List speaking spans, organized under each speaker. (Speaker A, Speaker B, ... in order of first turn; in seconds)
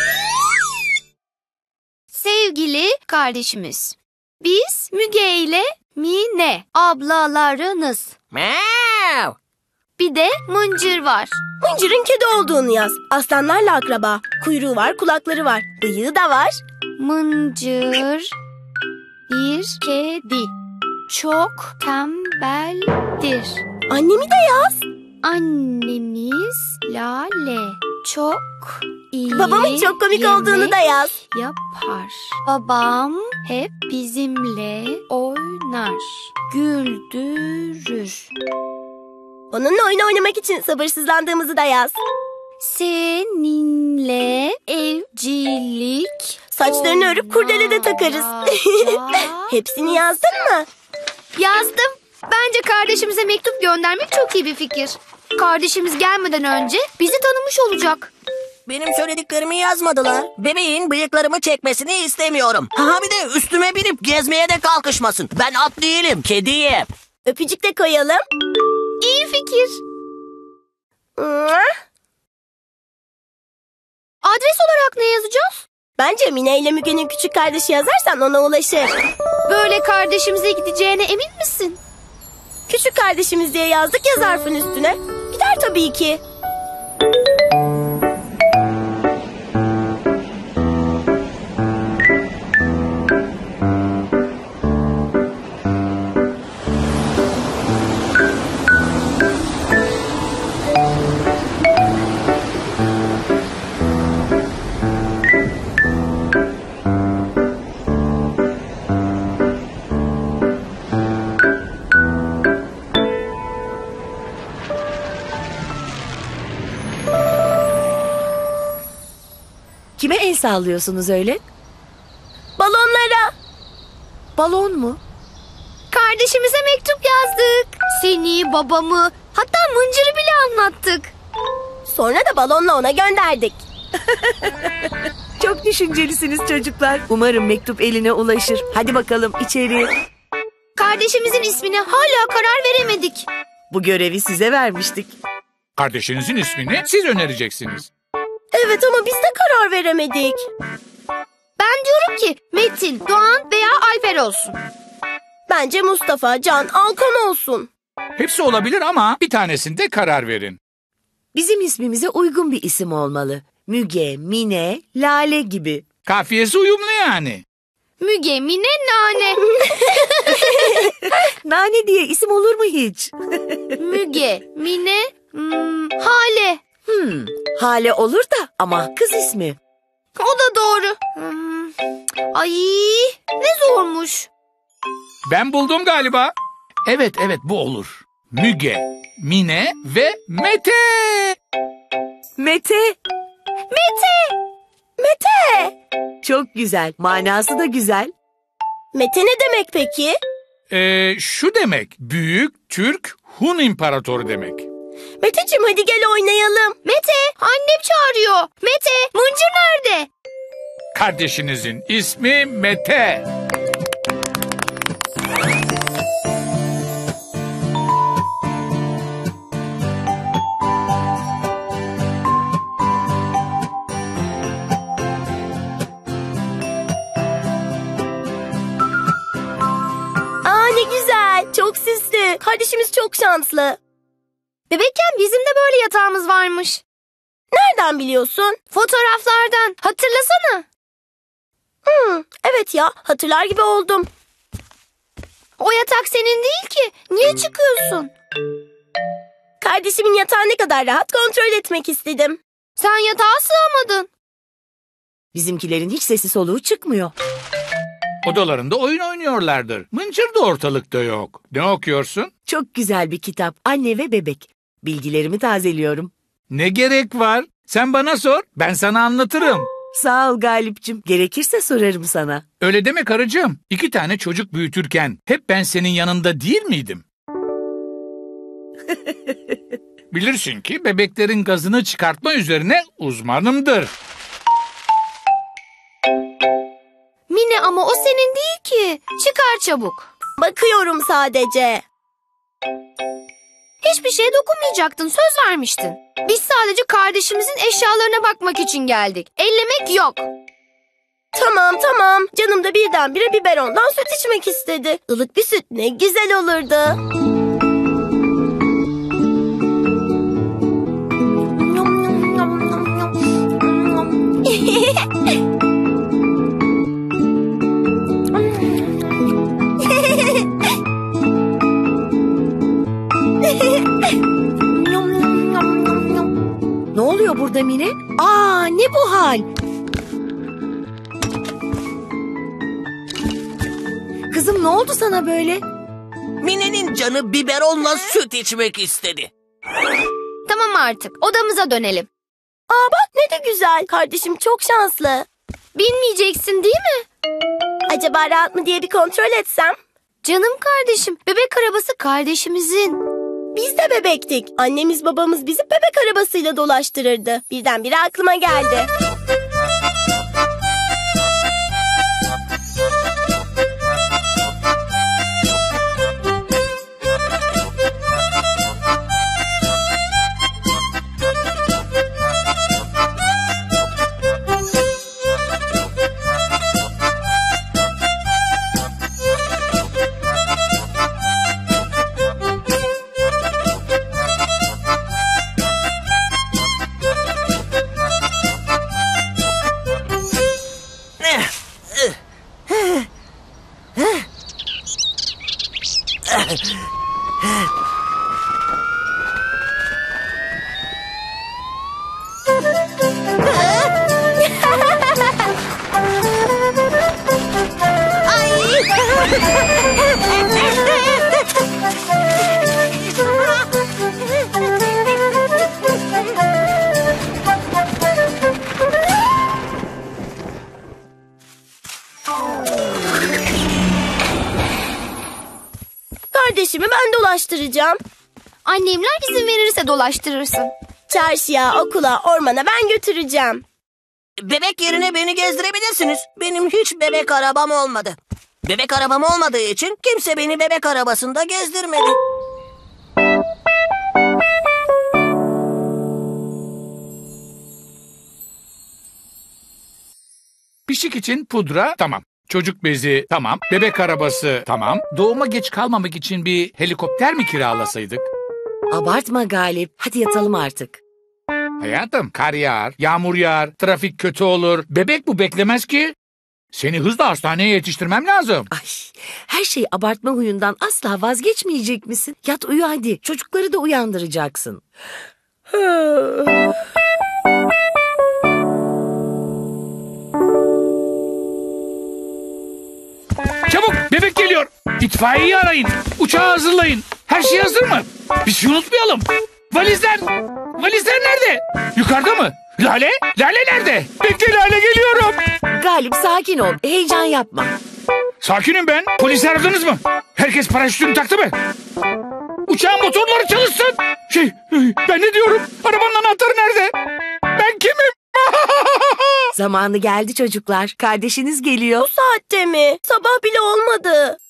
Speaker A: 2.1-8.1, 10.0-11.4, 17.0-18.3, 19.3-20.5, 21.1-23.6, 25.2-38.3, 42.6-49.5, 51.4-58.1, 69.0-69.8, 74.2-75.6, 79.5-81.8, 125.9-131.1, 140.8-143.3, 151.6-154.6, 168.0-170.7, 173.7-176.6, 180.1-181.7, 182.3-184.3, 193.7-194.3, 206.8-210.1, 234.7-236.8, 238.7-240.6, 245.6-248.1, 252.8-254.1, 287.3-290.1, 293.8-300.3, 340.4-342.1, 345.7-347.1, 350.2-353.0, 428.6-430.7
Speaker B: 8.3-9.3, 58.7-66.9, 336.4-339.3, 391.2-392.1, 392.7-393.0, 396.3-396.6, 434.4-442.1
Speaker C: 11.6-16.6, 23.9-24.8, 29.3-31.1, 39.5-42.0, 46.5-50.6, 67.2-68.2, 71.2-71.7, 76.0-78.9, 82.7-86.2, 122.6-123.3, 131.8-133.6, 148.5-150.4, 155.5-157.7, 195.0-195.7, 198.9-200.2, 205.2-206.8, 230.4-233.8, 237.5-238.6, 241.8-244.1, 249.6-252.4, 290.4-291.8, 301.3-307.0, 311.6-313.1, 313.6-315.0, 319.9-320.4, 342.7-345.3, 347.9-349.8, 353.5-358.9, 426.3-428.0, 431.1-433.6, 512.0-514.4
Speaker D: 120.0-121.4, 124.3-125.0, 134.3-134.5, 135.4-139.9, 143.7-145.2, 161.3-165.8, 171.1-173.7, 176.9-179.6, 192.4-192.9, 196.2-198.1, 255.3-257.1, 262.5-266.1, 269.9-272.4, 326.9-329.4, 334.3-335.6, 458.9-461.0, 468.7-474.8, 475.7-476.6, 495.7-497.8, 509.5-512.1
Speaker E: 145.8-147.9, 158.2-160.6, 166.0-167.4, 185.2-186.3, 186.8-191.4, 200.7-204.7, 210.9-213.2, 258.2-262.3, 266.5-269.7, 272.6-277.0, 280.1-283.9, 450.9-458.3, 461.8-466.1, 466.7-468.7, 483.7-495.4, 498.4-501.5, 502.7-506.9, 507.5-509.5